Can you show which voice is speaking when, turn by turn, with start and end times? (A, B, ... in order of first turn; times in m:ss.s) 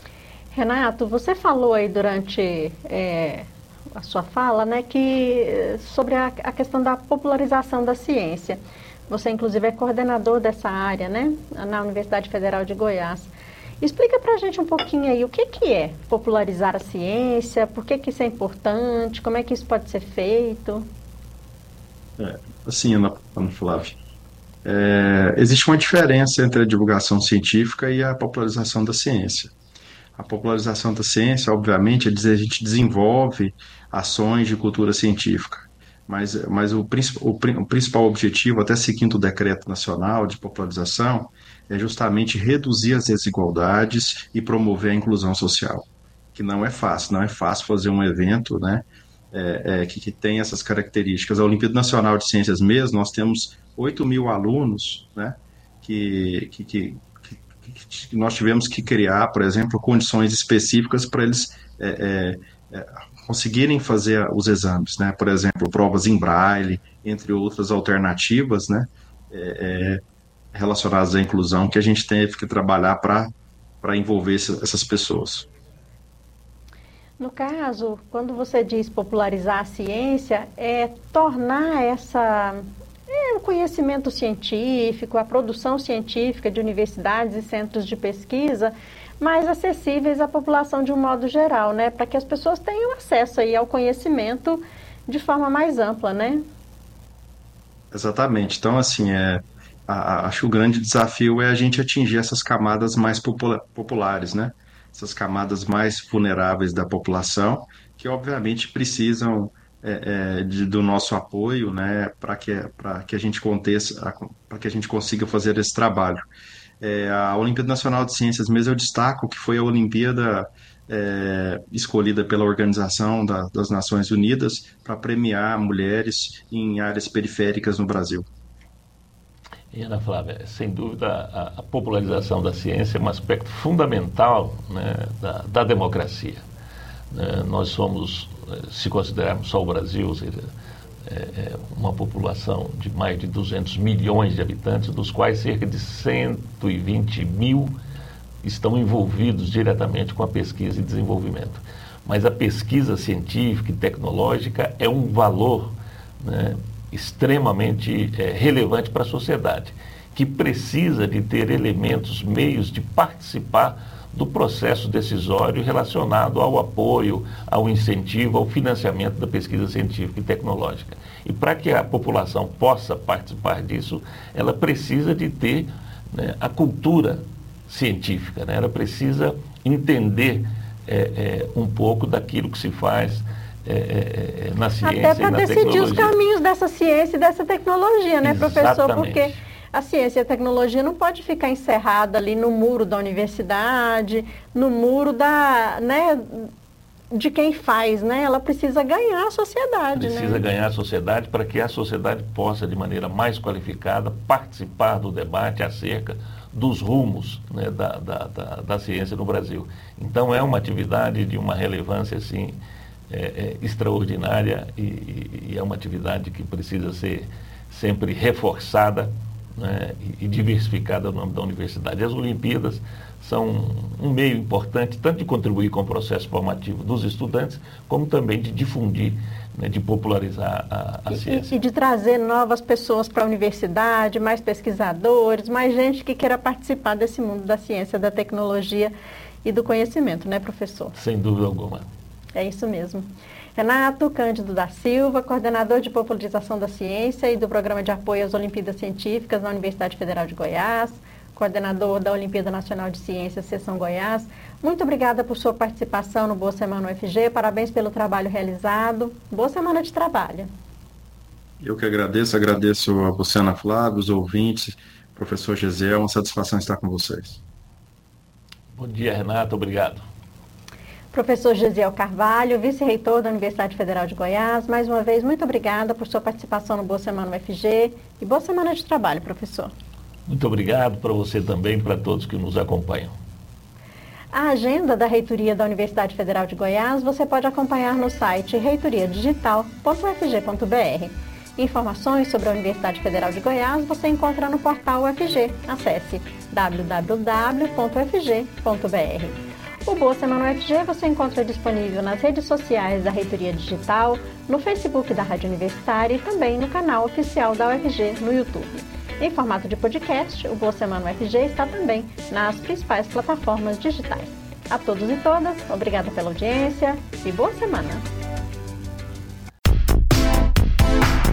0:00.5-0:20.9 A
0:22.2-0:24.0 B
0:24.6-0:29.5 B
0:30.2-1:10.0 B
1:10.5-1:13.3 B
1:13.8-1:15.5 B
1:17.2-1:36.4 A
1:37.9-1:56.2 B
1:56.8-2:08.2 B
2:09.7-2:16.4 C
2:17.1-2:20.5 C
2:21.0-2:27.7 C
2:28.4-3:06.1 C
3:04.8-3:16.5 A
3:08.2-3:09.4 C
3:17.1-3:20.4 A
3:19.9-3:32.6 C
3:33.1-3:51.5 C
3:51.1-3:58.9 A
3:59.4-4:00.9 A
4:01.0-4:01.9 C
4:02.3-4:20.5 A
4:21.6-4:27.4 B
4:28.7-4:30.0 C
4:31.1-4:39.7 A
4:40.3-4:43.1 C
4:44.3-5:18.0 A